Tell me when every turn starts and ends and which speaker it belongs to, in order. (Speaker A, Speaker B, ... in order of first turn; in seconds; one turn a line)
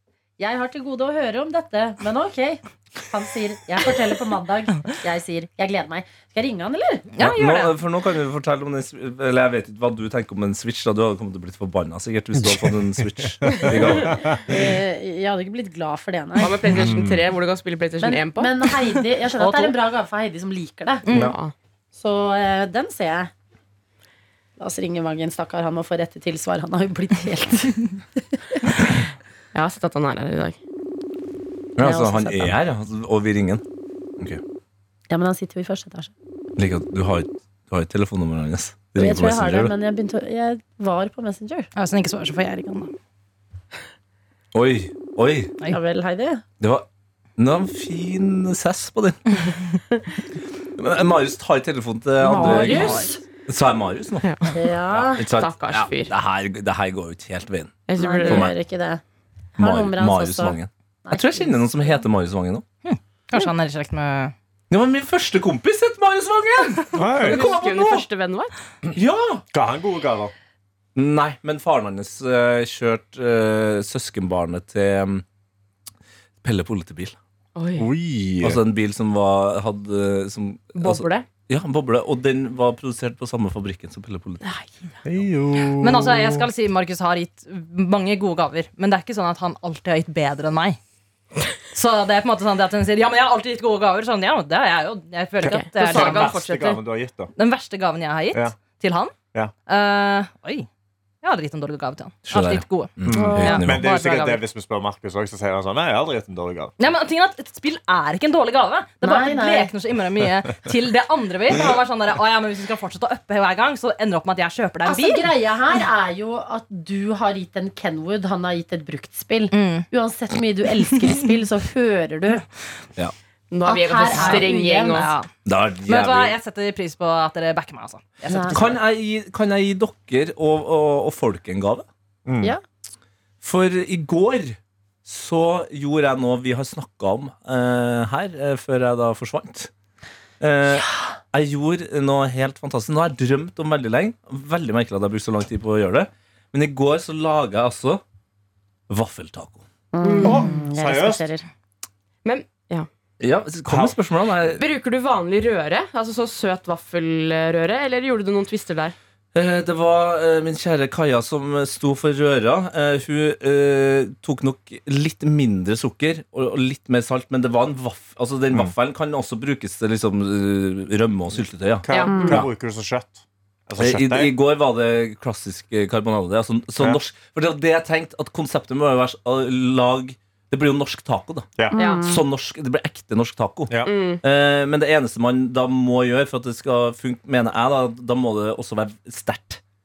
Speaker A: 0.4-7.1
Speaker B: 7.1-7.8
Speaker C: 7.2-14.2
Speaker D: 12.4-12.7
Speaker D: 13.4-14.3
Speaker A: 13.9-16.8
Speaker E: 16.4-18.6
Speaker D: 16.7-17.2
Speaker A: 18.0-21.1
Speaker E: 19.4-19.8
Speaker B: 21.0-21.3
Speaker E: 21.1-21.5
Speaker A: 21.9-23.3
Speaker A: 24.6-28.8
Speaker E: 29.5-30.6
Speaker C: 31.8-33.6
Speaker A: 31.8-32.6
Speaker A: 35.1-36.1
Speaker C: 36.6-39.7
Speaker A: 39.0-41.7
Speaker B: 41.7-42.9
Speaker C: 44.5-45.5
Speaker A: 45.7-46.4
Speaker C: 46.6-46.9
Speaker C: 47.4-49.4
Speaker C: 50.8-58.5
Speaker A: 52.2-53.2
Speaker B: 52.4-53.2
Speaker E: 54.2-54.5
Speaker A: 54.4-55.2
Speaker E: 55.2-56.1
Speaker E: 57.9-58.5
Speaker A: 58.0-59.0
Speaker A: 59.6-62.0
Speaker C: 59.6-62.6
Speaker B: 62.8-64.3
Speaker C: 64.7-68.1
Speaker D: 67.0-67.5
Speaker E: 67.2-68.5
Speaker C: 68.9-69.4
Speaker D: 69.5-70.3
Speaker C: 70.9-75.2
Speaker C: 76.4-77.1
Speaker E: 77.5-77.9
Speaker D: 77.8-78.6
Speaker C: 78.4-84.5
Speaker E: 80.8-81.2
Speaker D: 85.0-86.5
Speaker B: 85.8-90.8
Speaker B: 91.7-96.4
Speaker D: 95.4-97.3
Speaker E: 95.5-96.8
Speaker B: 97.3-99.1
Speaker B: 99.7-100.7
Speaker B: 101.2-104.4
Speaker C: 102.3-103.8
Speaker D: 103.1-106.7
Speaker A: 103.1-103.6
Speaker B: 106.8-115.3
Speaker A: 109.0-109.7
Speaker A: 114.8-122.5
Speaker B: 119.5-119.9
Speaker E: 123.5-125.1
Speaker A: 123.6-125.0
Speaker B: 124.1-125.3
Speaker C: 125.4-126.4
Speaker B: 125.8-128.8
Speaker A: 128.3-128.6
Speaker C: 128.5-131.8
Speaker D: 132.2-132.5
Speaker C: 133.4-139.7
Speaker C: 140.4-148.0
Speaker C: 148.9-149.6
Speaker A: 149.9-151.4
Speaker E: 150.0-150.4
Speaker D: 150.2-151.3
Speaker E: 152.2-152.9
Speaker C: 153.2-154.6
Speaker D: 153.7-153.9
Speaker E: 154.5-158.9
Speaker C: 159.3-172.5
Speaker D: 171.8-174.4
Speaker E: 171.9-172.4
Speaker A: 172.0-172.4
Speaker C: 173.8-181.5
Speaker D: 181.6-181.9
Speaker A: 181.7-182.2
Speaker E: 181.8-182.1
Speaker C: 182.0-189.6
Speaker E: 183.8-184.2